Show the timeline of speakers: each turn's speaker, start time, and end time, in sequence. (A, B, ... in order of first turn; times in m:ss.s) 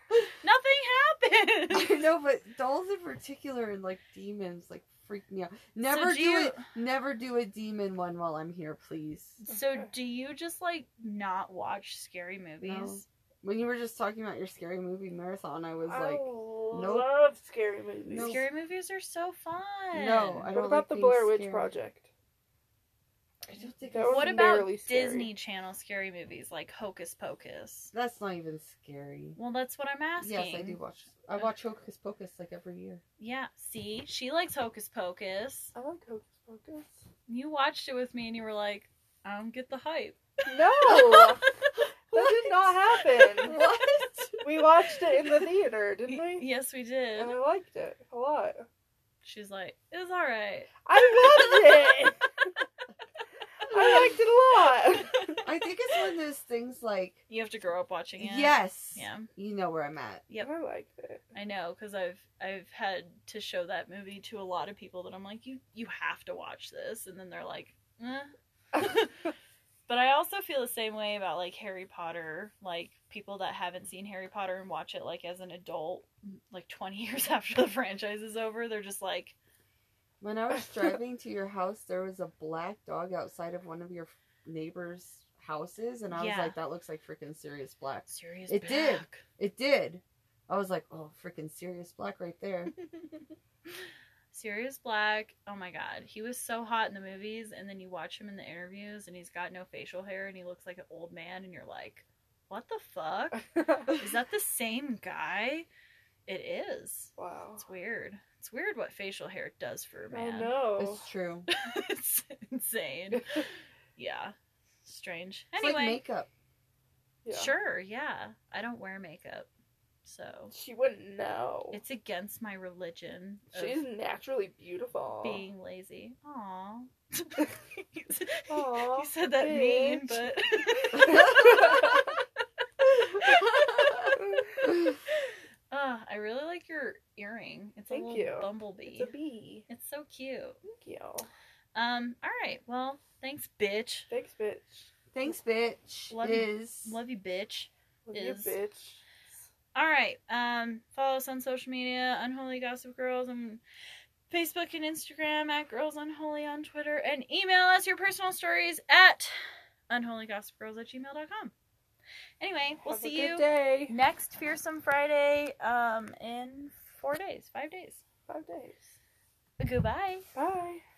0:00.4-0:02.0 A
0:01.7-0:09.4 B
0:05.9-0:06.7 A
0:09.4-0:13.0 A
0:12.6-0:17.1 B
0:15.9-0:18.4 C
0:18.1-0:18.5 B
0:18.2-0:20.5 A
0:19.9-0:21.8 B
0:20.5-0:22.1 C
0:23.4-0:24.6 B
0:23.9-0:25.3 C
0:24.1-0:27.9 A
0:27.9-0:29.4 B
0:29.4-0:30.8 A
0:30.2-0:33.0 B
0:33.2-0:35.7 A
0:35.8-0:37.0 C
0:37.3-0:40.2 A
0:40.5-0:41.4 C
0:40.9-0:44.5 B
0:42.1-0:43.6 C
0:44.4-0:46.4 C
0:46.1-0:47.3 A
0:47.2-0:48.7 C
0:49.2-0:52.1 A
0:50.8-0:52.5 C
0:53.7-0:55.4 C
0:55.1-0:55.4 A
0:55.4-0:57.2 B
0:57.3-0:59.3 A
0:58.2-1:00.2 B
1:00.4-1:01.2 C
1:01.3-1:09.3 A
1:09.9-1:19.4 A
1:20.2-1:32.7 B
1:26.1-1:26.6 A
1:28.1-1:29.2 A
1:34.3-1:45.7 A
1:43.6-1:43.9 C
1:46.3-1:50.6 A
1:47.2-1:47.6 C
1:50.1-1:51.1 C
1:50.8-1:51.5 B
1:51.5-1:56.0 A
1:55.6-1:56.3 B
1:57.2-1:57.5 C
1:57.3-1:59.5 A
2:00.0-2:00.5 A
2:00.5-2:01.8 C
2:01.7-2:03.8 A
2:03.5-2:05.4 C
2:05.2-2:12.2 A
2:08.5-2:10.3 C
2:10.9-2:12.1 C
2:11.1-2:11.8 B
2:13.1-2:14.2 A
2:13.2-2:14.0 B
2:14.0-2:14.5 C
2:15.1-2:19.1 A
2:17.9-2:19.7 C
2:19.7-2:20.6 A
2:20.6-2:21.3 C
2:21.8-2:24.1 A
2:24.1-2:24.9 C
2:25.1-2:27.0 B
2:26.1-2:28.6 A
2:28.1-2:29.0 C
2:29.7-2:33.6 A
2:34.3-2:41.5 A
2:42.4-2:48.0 A
2:42.8-2:43.9 C
2:48.3-2:48.9 C
2:49.6-2:50.3 A
2:50.4-2:50.8 C